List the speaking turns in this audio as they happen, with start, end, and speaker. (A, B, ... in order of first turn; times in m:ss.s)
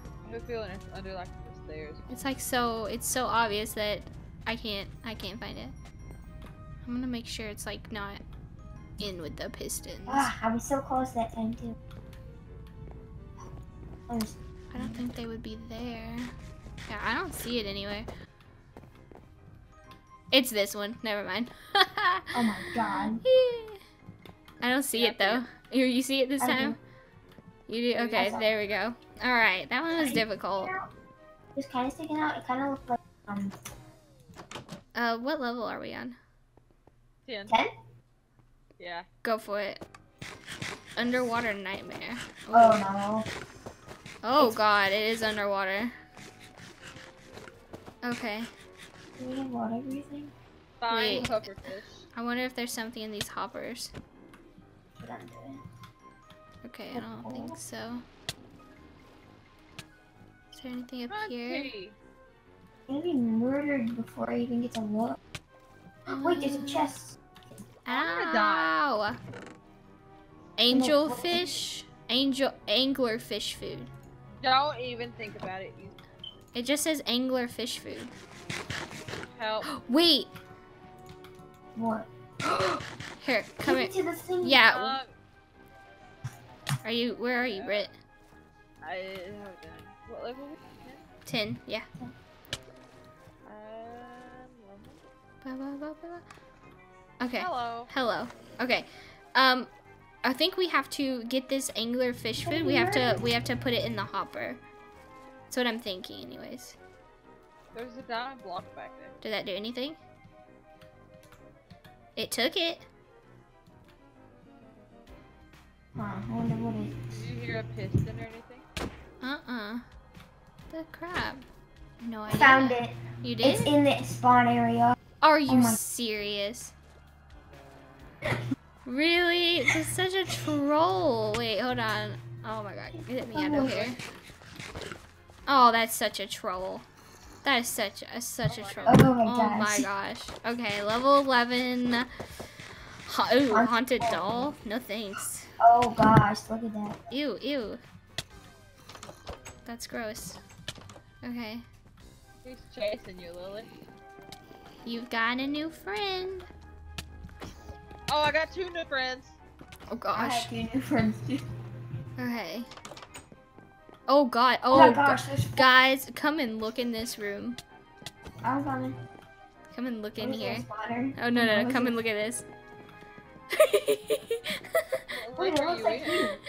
0:00.2-0:02.2 A
0:02.1-0:05.8 B
0:06.8-0:08.2 B
0:09.0-0:10.3 B
0:10.1-0:11.8 C
0:14.1-0:15.0 C
0:14.7-0:16.3 B
0:16.9-0:18.1 B
0:20.3-0:22.4 B
0:22.3-0:23.2 C
0:23.2-0:23.8 B
0:24.6-0:26.8 B
0:24.9-0:25.4 A
0:26.4-0:26.8 C
0:27.7-0:30.7 B
0:27.9-0:28.2 A
0:28.2-0:28.5 C
0:29.9-0:30.9 C
0:31.6-0:33.6 C
0:35.0-0:36.2 B
0:37.3-0:37.6 A
0:38.8-0:39.1 A
0:39.2-0:39.8 B
0:41.0-0:42.9 B
0:42.5-0:43.3 C
0:44.2-0:45.9 B
0:44.4-0:44.6 C
0:48.0-0:48.5 B
0:49.2-0:50.3 C
0:50.8-0:52.0 A
0:50.9-0:53.9 B
0:55.0-0:55.6 C
0:56.6-0:58.0 B
0:56.9-0:57.6 C
1:00.5-1:01.7 B
1:01.1-1:02.0 A
1:02.9-1:05.2 C
1:06.1-1:07.2 C
1:06.1-1:06.9 B
1:07.8-1:09.2 B
1:07.9-1:08.7 A
1:10.6-1:13.9 B
1:10.7-1:11.6 C
1:14.4-1:16.0 A
1:16.5-1:18.1 B
1:19.4-1:19.7 A
1:19.7-1:20.3 B
1:21.8-1:22.8 C
1:23.2-1:25.0 B
1:23.6-1:24.6 C
1:24.7-1:25.1 A
1:26.8-1:28.0 B
1:27.3-1:27.9 A
1:28.8-1:31.1 A
1:31.3-1:31.9 B
1:33.5-1:35.0 A
1:35.4-1:36.2 B
1:37.2-1:39.7 B
1:37.3-1:37.9 A
1:40.2-1:44.6 B
1:42.4-1:43.3 C
1:45.5-1:46.8 B
1:47.7-1:49.1 A
1:49.2-1:50.0 B
1:52.2-1:52.9 B
1:56.0-1:57.1 C
1:57.1-1:58.7 A
1:59.2-1:59.8 B
2:00.7-2:01.4 B
2:02.0-2:03.7 B
2:02.3-2:05.0 C
2:05.2-2:06.7 B
2:05.5-2:05.8 C
2:08.8-2:14.0 B
2:12.9-2:13.9 C
2:13.6-2:13.9 A
2:15.5-2:16.9 B
2:17.4-2:22.1 B
2:18.5-2:19.1 A
2:18.9-2:19.9 C
2:23.1-2:25.5 B
2:23.5-2:24.5 C
2:25.6-2:27.0 C
2:27.1-2:27.8 B
2:29.6-2:30.4 B
2:31.2-2:31.6 B
2:32.4-2:33.7 A
2:34.8-2:36.5 B
2:38.1-2:39.4 A
2:39.9-2:40.5 B
2:40.1-2:41.5 C
2:42.2-2:42.7 B
2:44.1-2:47.6 B
2:44.7-2:45.7 C
2:48.4-2:49.0 C
2:49.7-2:52.5 B
2:50.2-2:52.0 C
2:53.5-2:54.6 B
2:55.1-2:56.2 A
2:55.4-2:56.4 C